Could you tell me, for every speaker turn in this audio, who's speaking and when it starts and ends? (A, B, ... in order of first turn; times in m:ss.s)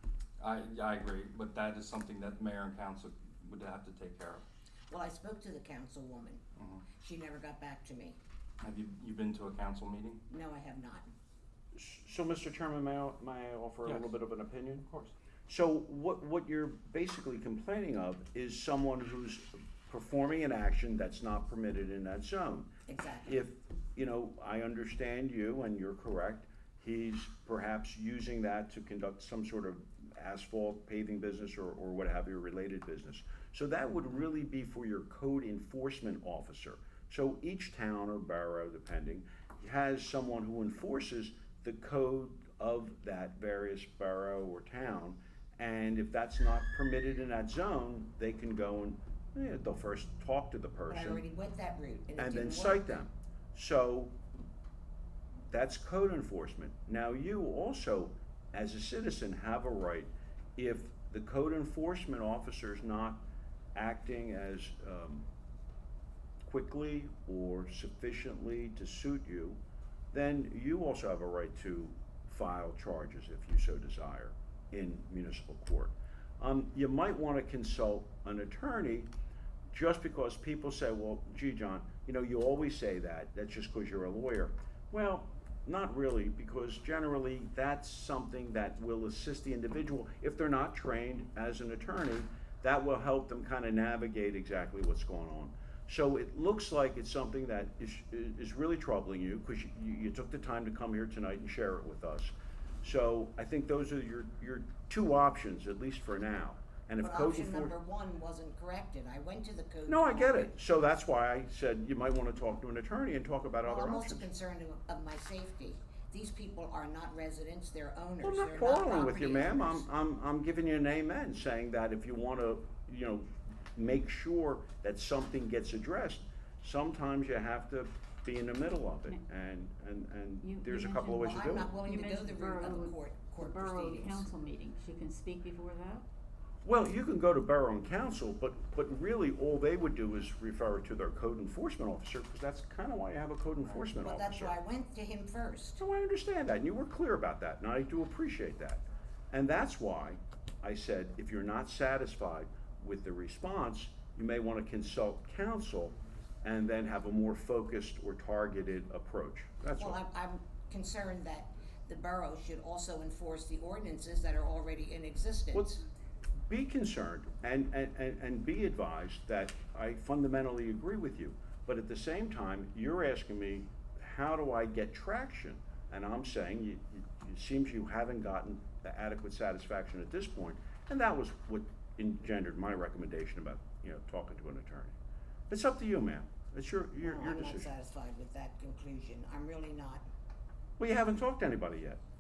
0:00.4-0:04.4 A
0:04.9-0:06.4 B
0:06.6-0:06.8 A
0:07.0-0:08.2 B
0:08.6-0:10.2 A
0:10.3-0:11.1 B
0:11.7-0:14.8 C
0:13.8-0:14.1 A
0:14.8-0:15.1 A
0:15.5-0:22.7 C
0:22.9-0:23.4 B
0:23.2-0:51.2 C
0:50.9-0:53.0 B
0:52.2-0:54.1 C
0:55.5-1:03.2 C
1:03.7-1:05.3 C
1:06.5-1:09.6 C
1:10.1-1:19.1 C
1:19.7-1:47.7 C
1:47.0-1:50.5 B
1:49.9-1:54.3 C
1:53.6-1:59.8 B
1:58.2-2:11.7 C
2:10.4-2:16.0 D
2:11.3-2:14.3 B
2:16.6-2:24.6 C
2:24.0-2:25.8 B
2:25.8-2:40.0 C
2:39.8-2:45.8 B
2:45.5-2:45.8 C
2:46.4-3:05.0 C
3:05.5-3:07.7 C
3:07.0-3:10.0 B
3:10.8-3:12.0 C